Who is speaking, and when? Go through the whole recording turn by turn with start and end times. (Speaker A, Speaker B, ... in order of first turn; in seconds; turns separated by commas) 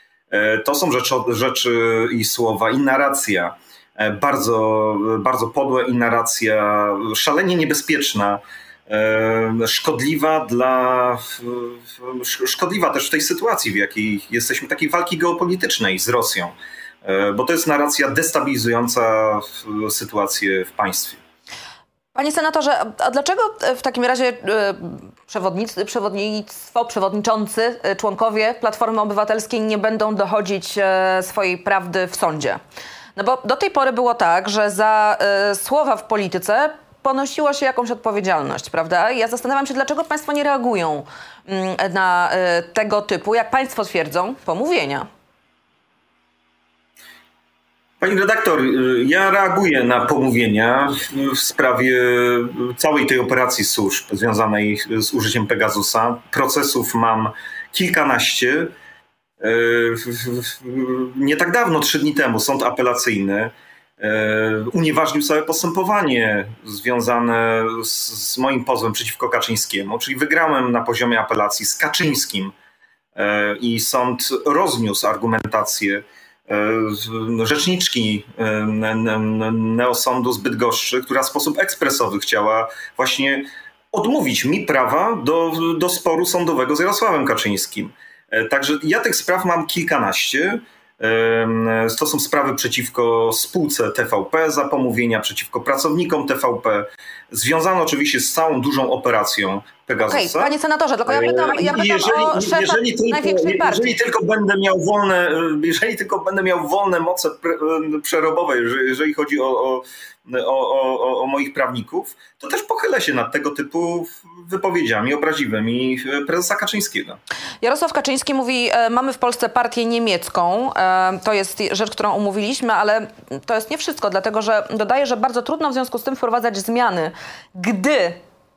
Speaker A: 0.3-21.2, Speaker B: 22.1-32.6, Speaker B: 33.2-45.1, Speaker A: 48.0-58.7, Speaker A: 59.4-72.5, Speaker A: 73.2-100.5, Speaker B: 100.1-103.9, Speaker A: 101.1-117.2, Speaker B: 117.6-128.2